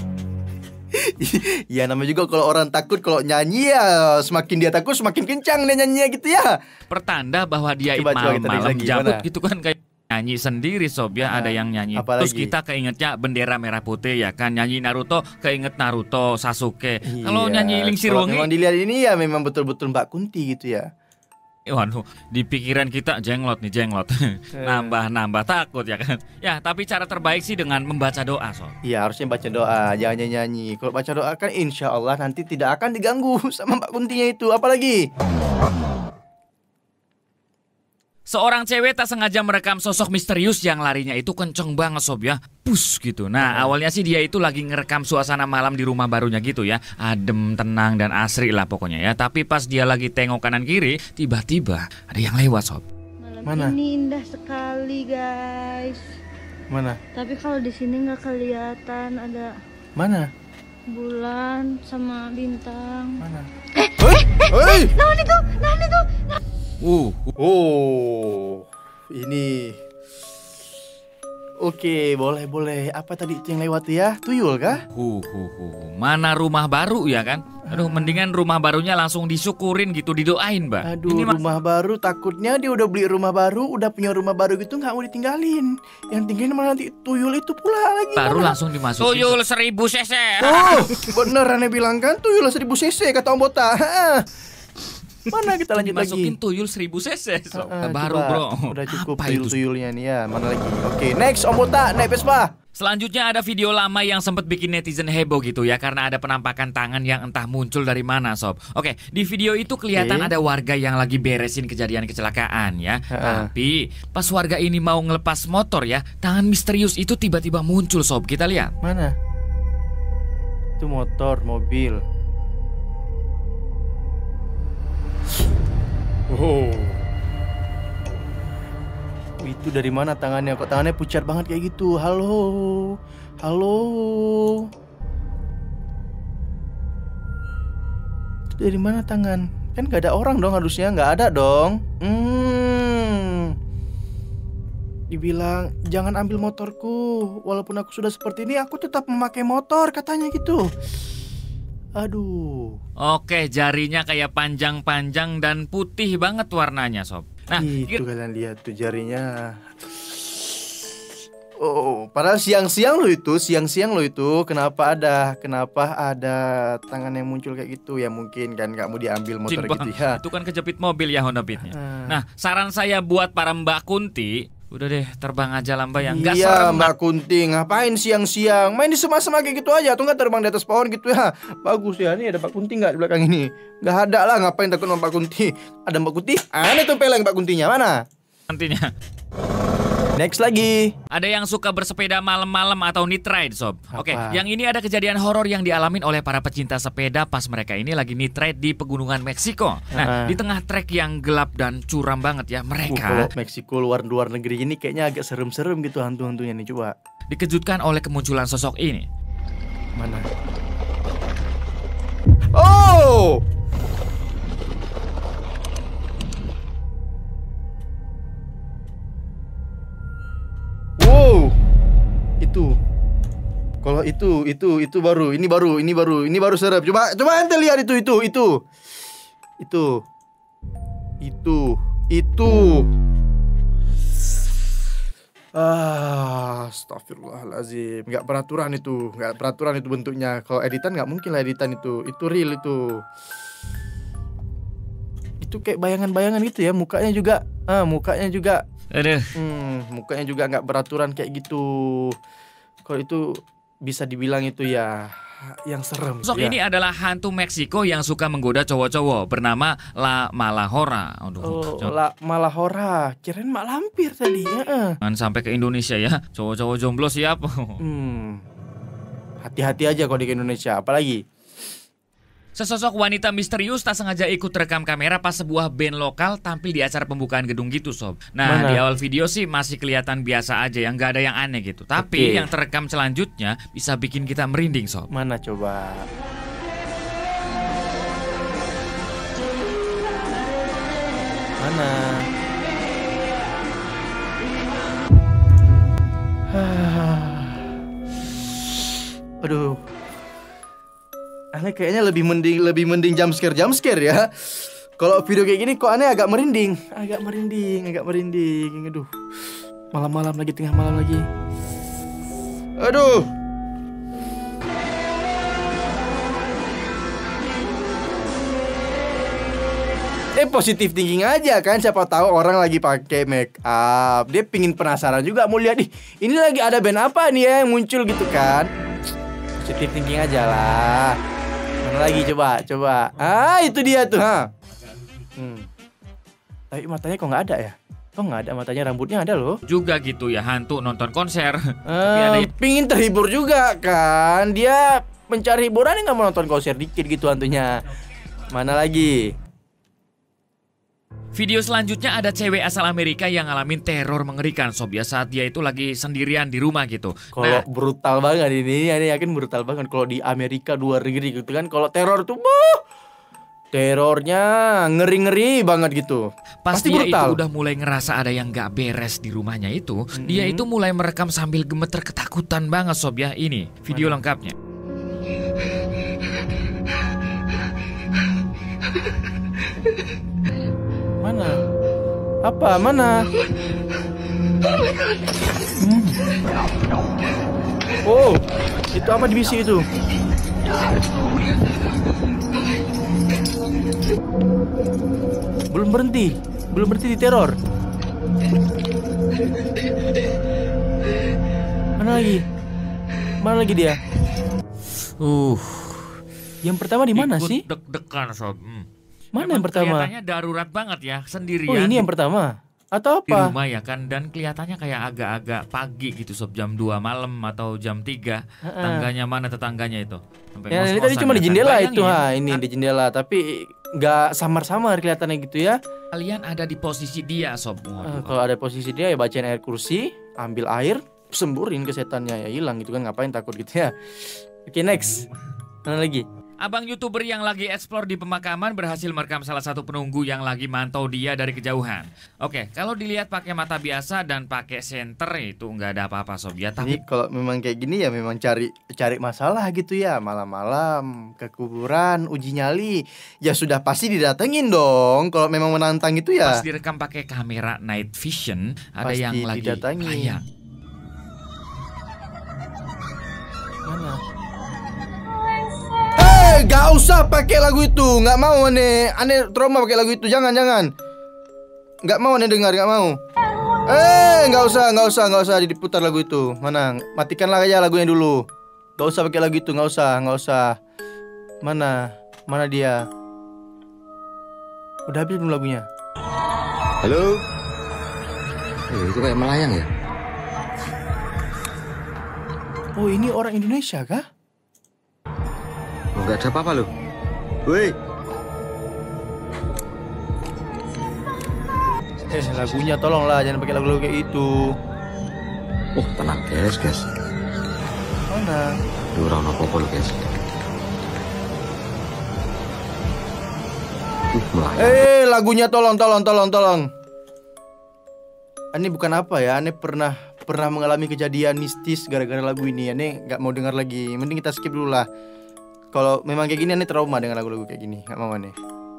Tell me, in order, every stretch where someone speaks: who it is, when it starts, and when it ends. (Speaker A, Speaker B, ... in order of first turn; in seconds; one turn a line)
Speaker A: 1.2-6.6
Speaker B: 6.9-18.5
Speaker A: 7.9-9.2
Speaker A: 11.2-12.5
Speaker A: 17.0-20.8
Speaker B: 21.7-28.7
Speaker A: 24.6-25.0
Speaker A: 28.8-35.0
Speaker B: 38.3-52.8
Speaker A: 43.4-43.7
Speaker C: 53.3-56.0
Speaker A: 53.5-53.8
Speaker A: 56.7-57.0
Speaker C: 57.1-59.5
Speaker A: 60.0-60.2
Speaker C: 60.9-63.2
Speaker A: 63.2-63.5
Speaker A: 64.0-65.0
Speaker C: 65.0-66.3
Speaker B: 66.8-67.3
Speaker A: 67.4-69.8
Speaker A: 71.6-74.8
Speaker B: 74.9-81.4
Speaker A: 77.7-78.2
Speaker A: 80.8-89.3
Speaker B: 88.2-91.2
Speaker A: 90.4-94.2
Speaker A: 95.3-96.3
Speaker B: 95.3-99.6
Speaker A: 97.5-102.5
Speaker B: 102.7-118.7
Speaker A: 109.9-110.3
Speaker A: 113.1-113.5
Speaker A: 118.8-119.1
Speaker A: 120.8-122.0
Speaker A: 126.3-127.0
Speaker A: 129.4-134.6
Speaker A: 138.6-143.5
Speaker A: 145.1-150.7
Speaker A: 152.0-152.8
Speaker B: 153.0-158.0
Speaker A: 157.5-159.5
Speaker A: 161.6-170.2
Speaker B: 169.5-176.9
Speaker A: 171.6-172.2
Speaker A: 176.0-188.0
Speaker B: 188.5-188.9
Speaker A: 190.2-190.9
Speaker B: 191.1-203.3
Speaker A: 193.9-194.4
Speaker A: 199.9-200.4
Speaker A: 202.9-206.9
Speaker B: 207.3-209.1
Speaker A: 209.9-210.2
Speaker A: 212.5-213.4
Speaker A: 221.0-221.5
Speaker A: 222.4-222.7
Speaker A: 223.8-228.5
Speaker A: 229.6-230.0
Speaker A: 231.2-232.9
Speaker A: 235.5-243.0
Speaker A: 245.4-248.6
Speaker B: 248.9-249.3
Speaker A: 249.4-252.1
Speaker A: 252.8-253.2
Speaker A: 253.8-255.1
Speaker A: 255.7-256.6
Speaker B: 256.2-261.9
Speaker A: 261.4-264.9
Speaker B: 265.0-267.8
Speaker A: 267.8-268.4
Speaker A: 269.4-271.2
Speaker B: 272.6-285.1
Speaker A: 278.4-278.8
Speaker A: 282.0-282.5
Speaker A: 285.1-286.1
Speaker A: 291.6-292.2
Speaker A: 296.5-297.7
Speaker A: 299.4-299.8
Speaker A: 301.5-309.1
Speaker A: 309.9-311.2
Speaker A: 312.8-313.3
Speaker A: 320.4-328.7
Speaker A: 329.6-331.2
Speaker A: 331.8-334.5
Speaker A: 335.4-335.7
Speaker A: 336.7-339.6
Speaker B: 339.6-342.5
Speaker A: 341.9-347.7
Speaker A: 348.5-349.1
Speaker B: 351.3-357.6
Speaker A: 357.3-362.8
Speaker A: 363.7-367.4
Speaker B: 366.6-374.5
Speaker A: 370.1-370.7
Speaker A: 373.9-374.2
Speaker A: 381.2-381.6
Speaker A: 382.4-383.2
Speaker A: 385.8-386.2
Speaker A: 388.0-388.4
Speaker A: 388.9-389.8
Speaker A: 395.7-397.5
Speaker A: 402.0-402.4
Speaker A: 403.4-404.0
Speaker B: 405.2-406.2
Speaker A: 406.6-407.6
Speaker B: 407.1-412.1
Speaker A: 409.3-410.1
Speaker A: 411.7-413.5
Speaker B: 413.3-422.6
Speaker A: 418.7-419.1
Speaker A: 420.7-423.4
Speaker A: 424.0-425.8
Speaker B: 426.1-428.4
Speaker A: 428.0-433.9
Speaker A: 434.6-435.2
Speaker A: 435.9-436.2
Speaker B: 436.6-447.0
Speaker A: 446.8-456.6
Speaker B: 456.4-460.4
Speaker A: 459.0-460.4
Speaker A: 463.9-464.2
Speaker A: 466.1-470.9
Speaker A: 472.0-473.1
Speaker A: 473.9-478.4
Speaker A: 479.0-480.7
Speaker A: 481.6-483.0
Speaker A: 485.1-485.8
Speaker D: 487.0-487.4
Speaker D: 489.4-489.9
Speaker A: 493.0-494.2
Speaker D: 496.2-496.9
Speaker A: 502.3-504.5
Speaker D: 505.9-507.1
Speaker A: 508.3-508.7
Speaker D: 509.1-510.3
Speaker D: 514.3-514.9
Speaker A: 514.8-516.9
Speaker A: 518.7-525.0
Speaker A: 525.9-528.5